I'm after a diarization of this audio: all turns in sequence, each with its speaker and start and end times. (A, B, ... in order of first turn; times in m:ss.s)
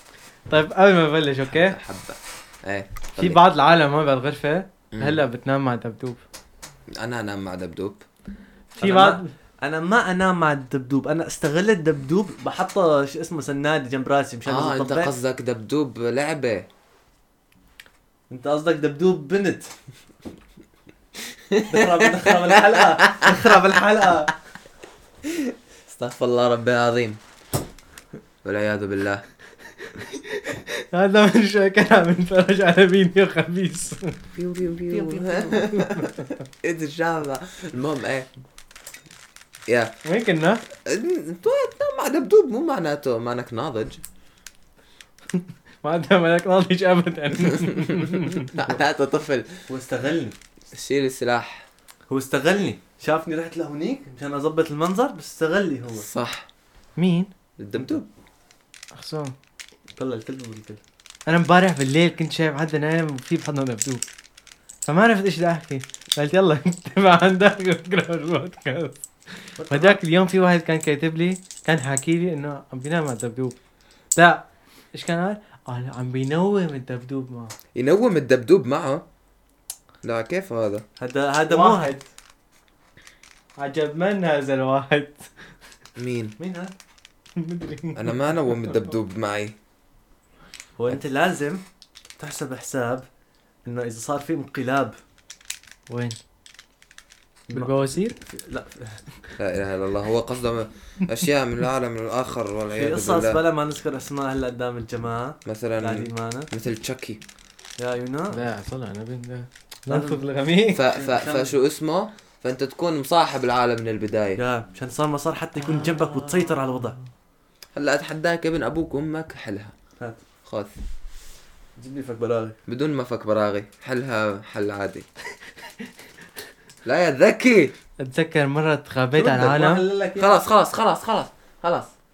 0:00.5-0:01.8 A
0:01.6-0:03.4 B
0:03.1-0:06.2 A
0:07.0-0:08.0 B
0:08.8-0:09.3 A
0:08.8-0:15.1 C
0:14.4-0:16.7 B
0:18.3-0:19.7 C
0:21.5-0:21.9 B
0:21.7-0:24.3 C
0:25.2-0:27.2 B
0:28.4-0:29.2 B
0:30.0-0:34.2 A
0:34.4-0:38.3 B
0:34.9-0:36.3 A
0:39.7-0:40.0 B
0:40.0-0:40.6 A
0:40.8-0:44.0 B
0:45.4-0:48.6 A
0:47.9-0:49.6 B
0:49.7-0:50.4 C
0:50.7-0:51.6 B
0:52.1-0:56.1 C
0:55.9-0:56.5 B
0:57.0-0:57.3 A
0:57.6-0:58.1 B
0:57.7-0:58.0 C
0:58.9-0:59.3 A
1:00.0-1:00.8 C
1:01.3-1:04.0 A
1:04.8-1:08.9 A
1:09.6-1:10.0 C
1:09.7-1:13.6 A
1:14.2-1:17.5 A
1:17.7-1:19.0 B
1:20.0-1:20.8 B
1:21.0-1:21.9 C
1:21.5-1:22.0 A
1:23.6-1:25.3 A
1:26.0-1:26.3 B
1:26.4-1:26.7 C
1:27.4-1:28.2 A
1:27.9-1:29.5 B
1:30.8-1:31.6 C
1:32.2-1:33.1 C
1:33.6-1:35.0 C
1:35.9-1:36.2 A
1:37.5-1:39.1 C
1:37.5-1:38.2 A
1:39.4-1:43.4 B
1:42.7-1:46.5 C
1:45.4-1:47.2 B
1:47.8-1:48.4 C
1:48.3-1:50.8 A
1:49.9-1:50.2 C
1:50.7-1:54.4 B
1:50.9-1:51.6 C
1:54.4-1:57.0 C
1:57.7-1:59.7 B
2:00.4-2:00.7 B
2:01.8-2:02.6 C
2:02.7-2:05.1 B
2:06.8-2:07.7 B
2:08.0-2:09.8 A
2:09.1-2:10.3 C
2:10.2-2:11.9 B